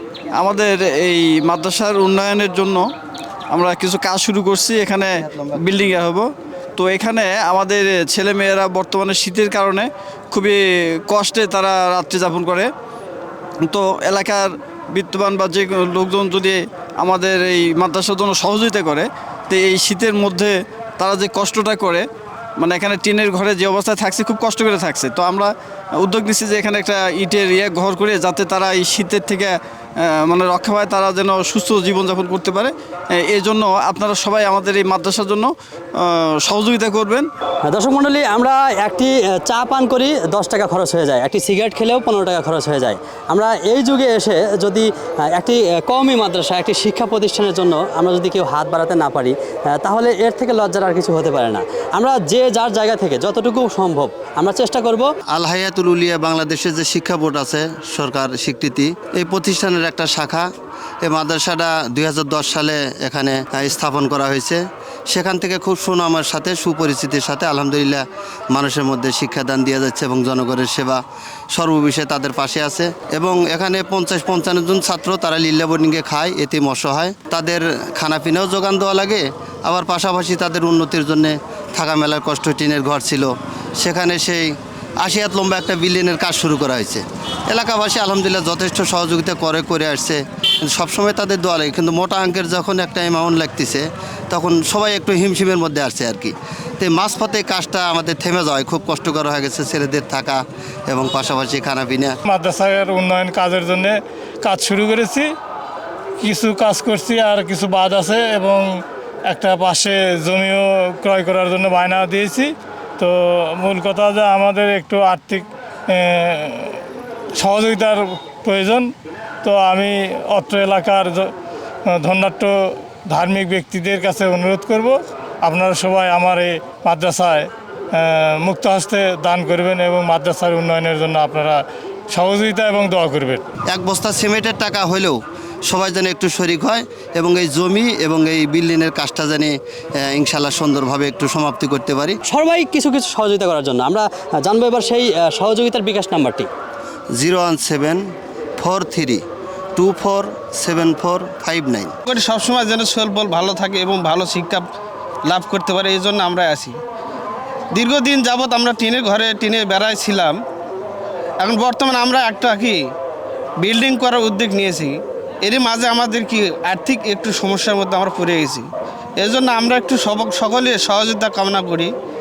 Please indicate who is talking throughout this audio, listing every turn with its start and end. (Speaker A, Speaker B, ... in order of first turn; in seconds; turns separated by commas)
Speaker A: 0.4-2.9, Speaker A: 3.5-12.7, Speaker A: 13.7-22.1, Speaker A: 22.6-37.3, Speaker B: 37.6-55.1, Speaker C: 55.3-60.5, Speaker C: 61.0-71.0, Speaker C: 71.5-90.2, Speaker C: 90.7-102.2, Speaker D: 102.3-105.3, Speaker D: 106.2-108.7, Speaker D: 109.3-116.8, Speaker D: 117.4-118.9, Speaker D: 119.4-121.3, Speaker D: 121.9-122.5, Speaker D: 123.1-131.6, Speaker D: 132.1-133.4, Speaker C: 133.7-142.2, Speaker B: 142.3-146.5, Speaker C: 147.2-148.0, Speaker C: 148.6-149.2, Speaker C: 149.8-151.9, Speaker E: 152.1-154.7, Speaker E: 155.3-156.8, Speaker E: 157.8-160.4, Speaker E: 161.4-162.8, Speaker E: 163.6-168.7, Speaker E: 169.2-171.9